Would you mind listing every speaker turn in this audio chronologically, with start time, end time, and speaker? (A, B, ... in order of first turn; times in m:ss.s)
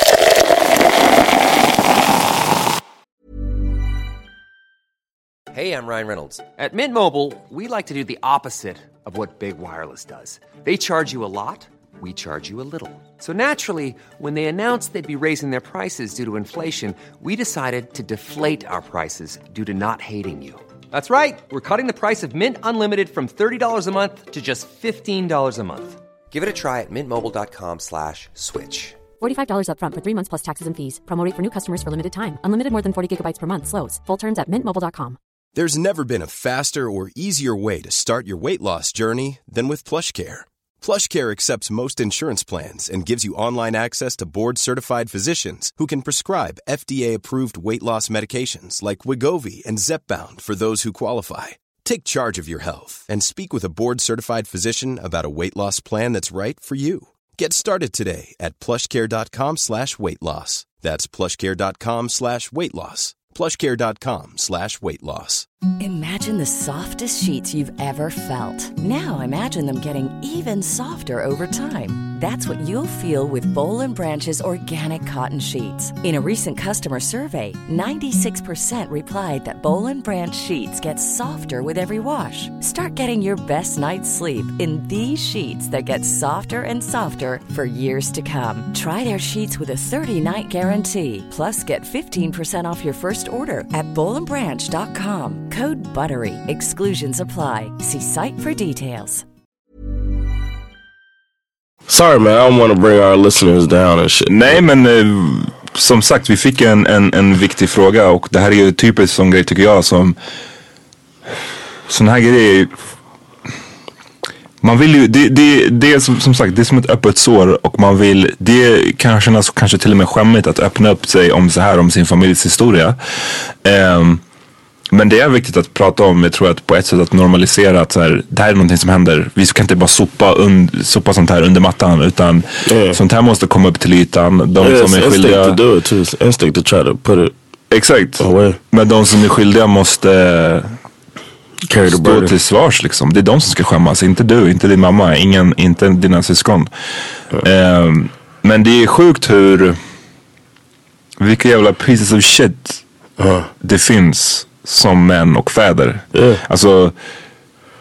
0:05.5-0:29.0 A
0:29.2-0:35.2 B
0:35.5-1:05.4 C
1:05.8-1:39.2 D
1:41.9-1:44.6 E
1:44.3-1:50.2 F
1:51.9-1:52.7 F
1:54.6-2:03.0 F
2:03.6-2:04.2 F
2:04.9-2:15.6 F
2:12.6-2:13.0 E
2:14.6-2:17.3 E
2:17.7-2:20.7 F
2:18.2-2:18.6 E
2:21.7-2:22.3 E
2:21.9-2:26.7 F
2:27.4-2:29.8 F
2:31.2-2:32.8 F
2:33.2-2:33.5 E
2:33.6-2:36.9 F
2:36.1-2:36.4 E